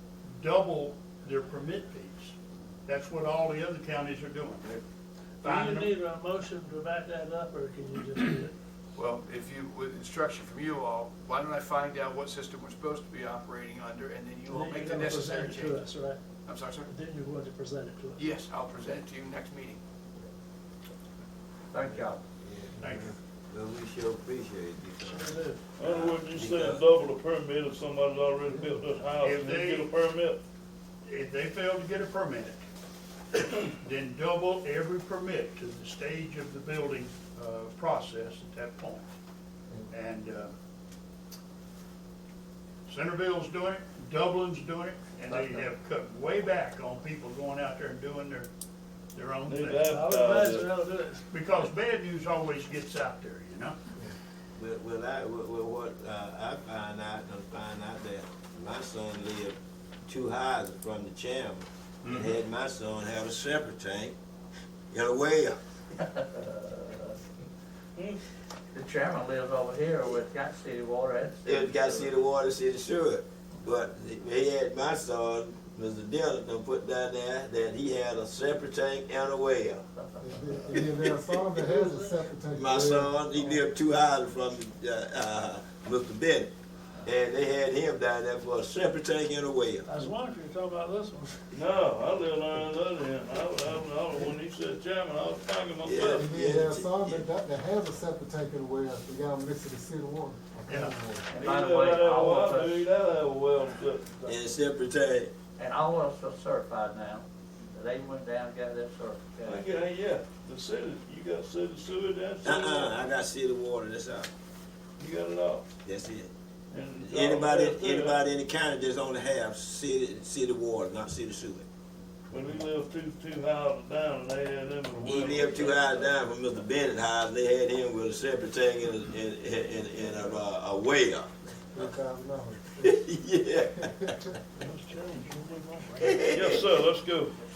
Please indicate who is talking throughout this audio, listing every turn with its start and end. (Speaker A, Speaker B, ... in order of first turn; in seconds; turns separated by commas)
Speaker A: 0.2-2.3, Speaker A: 2.9-4.8, Speaker B: 5.4-8.5, Speaker A: 5.4-5.9, Speaker C: 8.9-15.8, Speaker B: 14.4-16.2, Speaker C: 16.4-16.9, Speaker B: 16.8-18.9, Speaker C: 18.2-19.8, Speaker D: 21.7-22.2, Speaker E: 22.4-26.9, Speaker A: 22.8-23.1, Speaker B: 25.0-26.1, Speaker F: 25.7-30.4, Speaker A: 29.2-29.9, Speaker A: 31.1-32.6, Speaker A: 33.4-39.1, Speaker A: 39.9-40.5, Speaker A: 42.9-48.5, Speaker B: 45.3-45.7, Speaker A: 49.1-50.0, Speaker F: 49.5-50.6, Speaker B: 49.8-51.3, Speaker A: 51.3-53.8, Speaker E: 54.6-64.2, Speaker A: 62.0-62.3, Speaker E: 64.9-65.5, Speaker D: 66.0-67.2, Speaker D: 68.7-72.1, Speaker E: 71.4-79.8, Speaker D: 80.0-80.8, Speaker G: 80.2-83.6, Speaker E: 80.7-81.4, Speaker B: 81.6-82.2, Speaker E: 82.5-86.5, Speaker E: 87.0-90.0, Speaker B: 89.8-91.4, Speaker F: 91.5-96.2, Speaker E: 95.8-97.2, Speaker G: 96.0-101.3, Speaker A: 100.7-100.9, Speaker D: 101.3-102.9, Speaker F: 101.4-104.4, Speaker E: 104.2-105.3, Speaker D: 105.6-109.7, Speaker F: 109.4-112.9, Speaker E: 112.4-114.3, Speaker F: 115.0-115.7, Speaker E: 115.8-116.3, Speaker F: 116.7-118.1, Speaker E: 117.0-121.7, Speaker F: 122.3-125.9, Speaker E: 125.0-131.3, Speaker G: 131.7-133.0, Speaker E: 132.8-134.2, Speaker G: 133.8-134.3, Speaker B: 134.6-136.1, Speaker E: 136.0-136.6, Speaker F: 136.3-137.3